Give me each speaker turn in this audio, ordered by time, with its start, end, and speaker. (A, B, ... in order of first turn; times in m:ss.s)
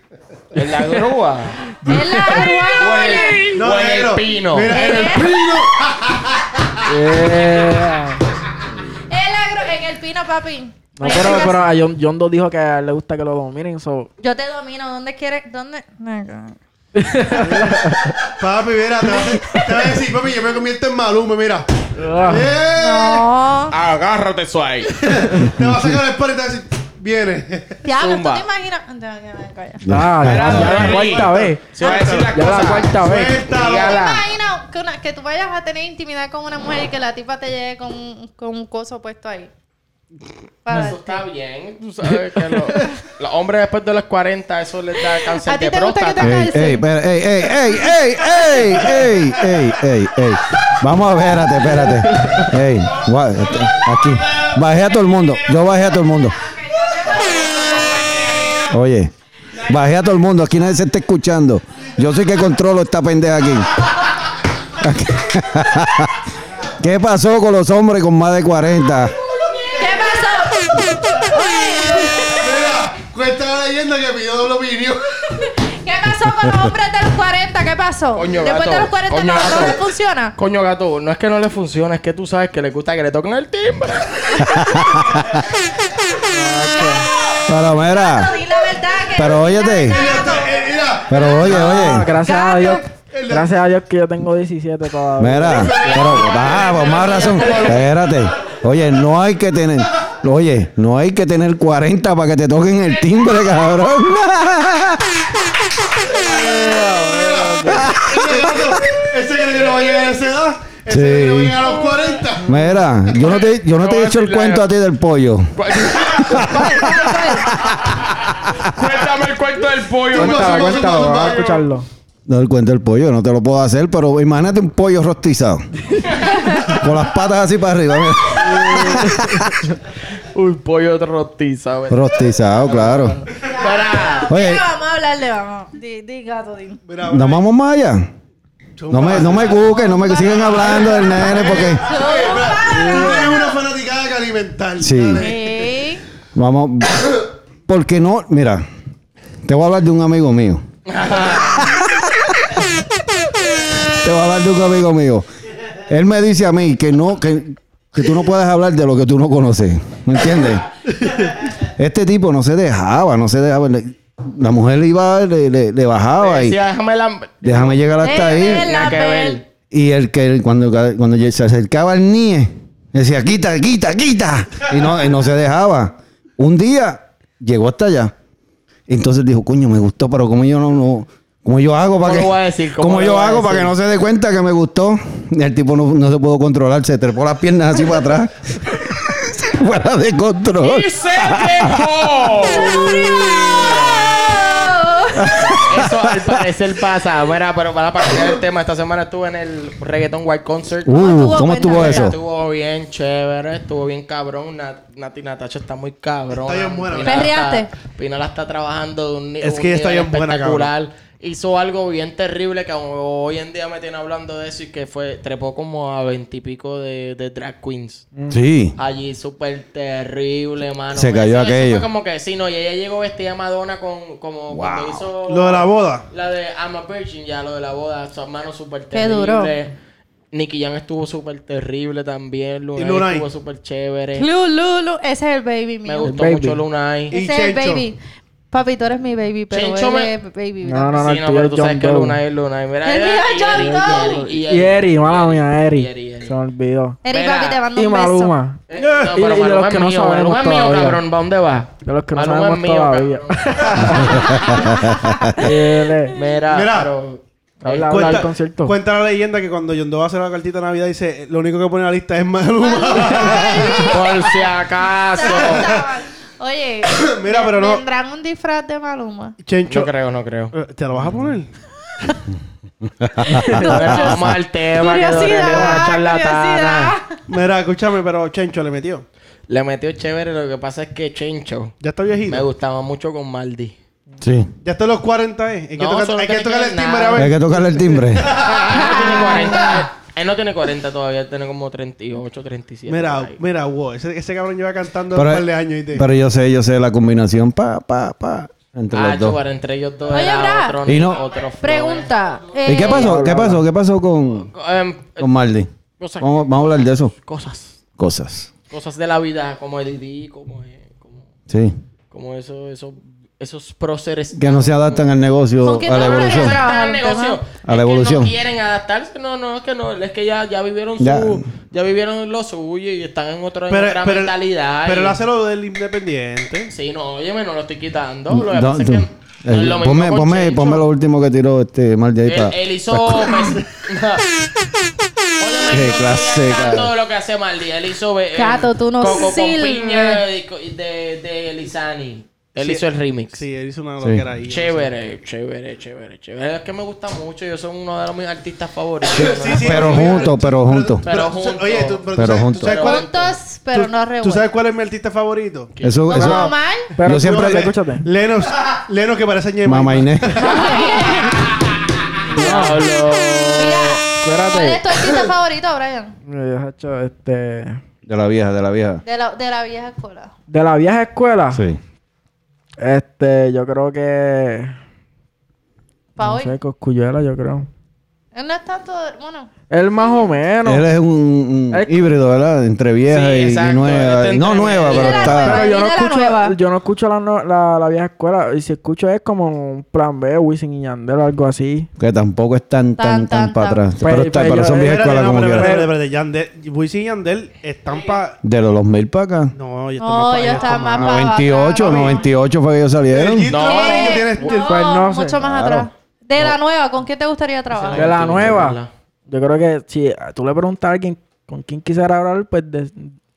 0:00.5-0:01.7 A
0:01.8-0:03.6 B
0:01.9-0:02.4 C
0:02.7-0:05.2 A
0:03.5-0:06.8 D
0:04.7-0:05.4 B
0:06.8-0:08.2 C
0:09.1-0:11.6 B
0:11.0-0:14.1 C
0:14.2-0:16.6 B
0:17.0-0:18.2 C
0:17.5-0:23.3 D
0:22.0-0:22.5 C
0:22.7-0:23.7 B
0:23.7-0:25.0 A
0:25.0-0:27.8 D
0:25.6-0:26.0 E
0:27.8-0:29.8 B
0:28.0-0:28.4 A
0:29.8-0:30.9 E
0:29.9-0:31.8 C
0:30.2-0:34.3 A
0:30.5-0:34.0 D
0:32.3-0:33.4 C
0:33.8-0:39.5 B
0:40.6-0:41.2 B
0:40.7-0:46.4 A
0:45.4-0:46.8 B
0:46.2-0:56.4 E
0:52.2-0:52.4 C
0:56.6-0:58.6 B
0:58.7-1:03.9 E
1:04.7-1:06.2 E
1:06.8-1:09.2 E
1:09.7-1:12.4 B
1:12.3-1:15.4 D
1:15.7-1:20.3 B
1:18.1-1:19.8 A
1:20.4-1:24.6 A
1:24.4-1:25.0 E
1:26.3-1:27.1 C
1:26.6-1:30.6 B
1:27.5-1:28.4 E
1:29.1-1:30.1 E
1:29.9-1:32.0 D
1:31.1-1:32.1 E
1:31.4-1:35.8 C
1:32.2-1:32.9 B
1:33.0-1:33.5 D
1:35.2-1:45.0 E
1:35.4-1:37.8 D
1:35.8-1:37.8 A
1:46.2-1:47.9 C
1:47.2-1:52.6 D
1:47.7-1:48.2 E
1:50.9-1:51.6 E
1:51.6-1:52.2 A
1:52.4-1:57.8 E
1:53.1-1:54.7 A
1:55.5-1:56.8 A
1:56.5-1:57.5 B
1:58.6-2:01.6 A
2:00.1-2:01.4 D
2:00.1-2:01.9 C
2:02.3-2:05.6 E
2:06.3-2:06.8 B
2:06.6-2:09.6 E
2:10.3-2:12.5 A
2:11.9-2:13.2 E
2:13.4-2:14.3 A
2:13.4-2:16.8 B
2:14.3-2:14.6 E
2:16.8-2:17.4 D
2:17.0-2:18.1 E
2:18.8-2:25.7 D
2:18.9-2:21.9 E
2:19.6-2:23.5 B
2:22.7-2:23.3 C
2:24.8-2:25.3 E
2:25.2-2:26.0 B
2:26.3-2:28.6 E
2:29.4-2:30.6 E
2:30.9-2:31.6 A
2:31.3-2:32.6 E
2:33.8-2:35.3 E
2:35.8-2:40.6 E
2:41.0-2:41.3 D
2:41.6-2:46.6 E
2:46.2-2:49.4 A
2:47.4-2:48.7 E
2:48.0-2:49.4 B
2:49.7-2:58.1 E
2:58.9-3:11.9 E
3:02.0-3:03.7 A
3:10.6-3:13.0 A
3:12.4-3:15.6 B
3:15.2-3:16.4 E
3:15.5-3:38.1 A
3:20.8-3:22.2 E
3:20.9-3:22.1 B
3:26.4-3:27.3 D
3:27.0-3:27.7 B
3:29.4-3:30.7 D
3:38.3-3:38.8 E
3:38.8-3:49.7 A
3:40.9-3:41.9 E
3:44.5-3:45.1 E
3:45.2-3:46.0 D
3:48.9-3:49.5 B
3:50.3-3:54.3 A
3:52.8-3:53.2 D
3:54.2-3:56.2 B
3:55.8-3:57.2 A
3:56.0-3:56.6 C
3:57.1-3:58.0 B
3:57.1-3:57.9 D
3:58.5-4:01.0 B
3:59.5-4:00.1 A
4:00.6-4:02.2 C
4:00.9-4:06.3 A
4:02.8-4:04.2 B
4:03.5-4:07.0 C
4:07.0-4:08.4 B
4:07.1-4:07.6 A
4:07.7-4:11.0 C
4:08.7-4:14.7 A
4:08.8-4:09.1 D
4:11.8-4:14.4 C
4:14.2-4:15.3 E
4:14.4-4:15.2 B
4:15.4-4:16.2 C
4:16.1-4:18.3 A
4:16.5-4:16.9 D
4:17.6-4:18.8 C
4:17.8-4:24.2 D
4:22.6-4:24.0 B
4:23.7-4:25.7 A
4:25.1-4:29.4 B
4:25.2-4:25.9 D
4:26.9-4:27.8 D
4:29.4-4:29.9 D
4:29.7-4:30.5 A
4:30.5-4:31.5 D
4:33.0-4:34.2 E
4:33.3-4:37.2 B
4:33.6-4:36.9 A
4:35.5-4:35.8 C
4:37.3-4:39.0 D
4:39.5-4:43.7 A
4:41.8-4:42.5 D
4:44.2-4:44.5 E
4:44.6-4:49.4 D
4:45.8-4:47.3 A
4:47.2-4:48.4 E
4:48.3-4:53.4 A
4:49.0-4:49.5 B
4:52.9-4:56.0 D
4:55.1-4:59.4 E
4:58.9-5:02.1 A
5:00.1-5:00.8 B
5:00.8-5:01.2 E
5:01.6-5:03.2 B
5:02.6-5:04.5 E
5:02.8-5:03.6 C
5:04.5-5:05.3 A
5:05.2-5:07.1 E
5:06.0-5:07.8 A
5:08.0-5:08.5 E
5:08.7-5:11.2 A
5:11.5-5:11.8 E
5:12.1-5:15.1 A
5:14.3-5:16.6 E
5:15.6-5:17.4 B
5:15.9-5:25.2 A
5:17.6-5:18.3 E
5:21.0-5:21.4 E
5:23.7-5:26.7 D
5:26.7-5:30.8 A
5:28.3-5:33.6 E
5:32.2-5:34.2 A
5:35.4-5:43.4 A
5:35.7-5:36.9 E
5:38.3-5:40.2 B
5:42.6-5:44.9 D
5:44.0-5:44.2 E
5:44.5-5:50.3 A
5:49.1-5:53.2 D
5:49.5-5:51.0 E
5:51.0-5:53.3 A
5:52.1-5:52.8 E
5:52.7-5:54.5 B
5:53.7-5:55.7 D
5:55.8-5:57.7 E
5:56.1-5:56.9 B
5:56.1-5:58.0 C
5:57.1-6:01.0 D
5:59.6-6:00.6 E
6:00.4-6:01.4 B
6:02.3-6:03.0 C
6:02.3-6:04.0 A
6:03.5-6:06.2 B
6:04.2-6:04.8 C
6:06.3-6:07.8 C
6:08.0-6:09.0 E
6:09.0-6:10.3 B
6:10.5-6:11.6 C
6:11.5-6:11.8 E
6:12.8-6:14.7 C
6:16.2-6:16.5 B
6:16.2-6:17.7 C
6:18.3-6:19.5 B
6:19.7-6:20.8 C
6:20.6-6:25.6 E
6:21.7-6:22.1 C
6:23.1-6:25.5 A
6:24.9-6:26.6 B
6:25.4-6:31.9 C
6:32.0-6:35.8 E
6:33.0-6:33.8 B
6:34.0-6:35.9 C
6:34.6-6:38.4 D
6:38.4-6:39.5 E
6:39.5-6:42.2 D
6:40.0-6:42.2 B
6:41.0-6:43.5 E
6:43.1-6:44.8 D
6:43.5-6:44.5 A
6:43.6-6:48.2 B
6:44.4-6:45.4 C
6:45.4-6:45.9 E
6:47.7-6:48.9 A
6:47.9-6:53.2 C